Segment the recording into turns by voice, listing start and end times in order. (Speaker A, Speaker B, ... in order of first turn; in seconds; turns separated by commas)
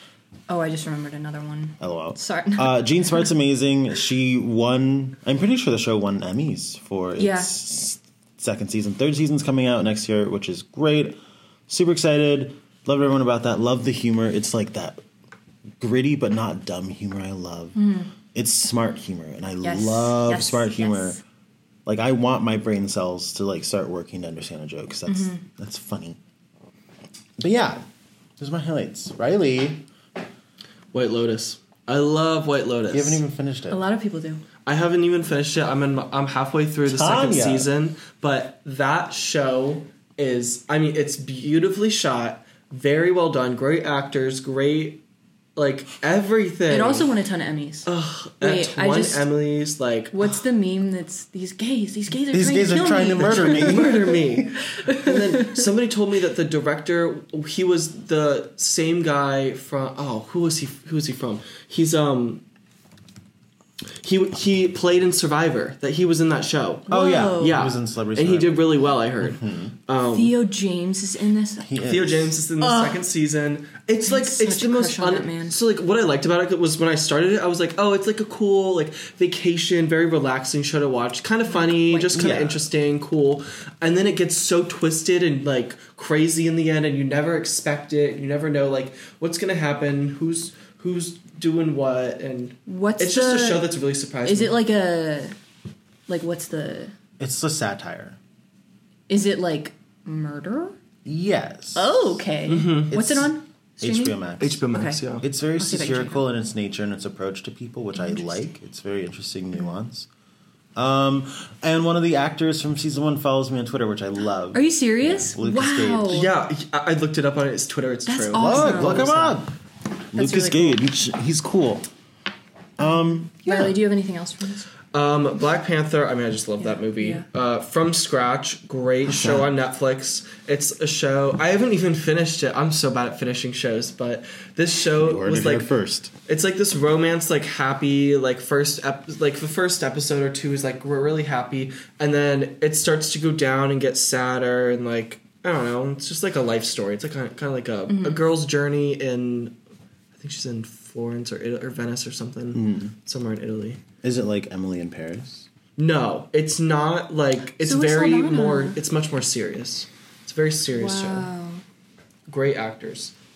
Speaker A: 0.5-3.2, Speaker B: 1.8-11.2, Speaker A: 7.2-7.5, Speaker B: 11.7-15.0, Speaker B: 15.8-17.8, Speaker A: 17.8-18.1, Speaker B: 18.3-21.2, Speaker A: 19.6-21.2, Speaker B: 21.9-26.2, Speaker A: 25.1-25.4, Speaker B: 27.4-27.8, Speaker B: 28.4-29.9, Speaker C: 30.9-33.2, Speaker B: 32.9-33.9, Speaker A: 33.7-34.4, Speaker C: 34.7-45.0, Speaker B: 36.8-37.7, Speaker C: 45.6-47.1, Speaker A: 46.7-49.5, Speaker C: 47.9-50.4, Speaker A: 50.1-54.2, Speaker B: 52.3-54.0, Speaker C: 53.2-62.4, Speaker A: 54.8-55.6, Speaker C: 64.0-70.4, Speaker A: 66.9-67.7, Speaker B: 66.9-68.8, Speaker B: 69.4-69.7, Speaker A: 70.1-71.8, Speaker B: 71.6-72.4, Speaker C: 71.8-94.6, Speaker A: 72.6-73.0, Speaker A: 74.0-75.6, Speaker A: 81.5-82.4, Speaker B: 82.1-82.7, Speaker A: 92.7-93.7, Speaker A: 94.2-95.3, Speaker A: 96.1-97.0, Speaker B: 97.2-98.2, Speaker A: 99.1-100.8, Speaker B: 101.0-102.2, Speaker A: 101.8-105.0, Speaker C: 102.5-103.0, Speaker B: 102.9-104.7, Speaker C: 104.4-105.3, Speaker B: 105.2-110.1, Speaker A: 105.5-106.3, Speaker A: 107.9-108.4, Speaker B: 110.8-116.3, Speaker A: 114.5-116.3, Speaker C: 116.1-119.3, Speaker A: 118.1-119.4, Speaker B: 118.3-119.5, Speaker A: 120.1-120.8, Speaker B: 120.1-121.9, Speaker B: 122.8-123.7, Speaker A: 123.2-124.7, Speaker C: 124.9-135.7, Speaker A: 126.6-127.2, Speaker B: 129.1-129.5, Speaker B: 135.0-136.1, Speaker C: 136.3-149.6, Speaker A: 147.9-148.2, Speaker C: 150.2-153.8, Speaker B: 152.5-152.9, Speaker B: 154.0-155.5, Speaker C: 155.8-161.3, Speaker A: 157.6-158.8, Speaker A: 160.7-161.6, Speaker C: 162.3-163.1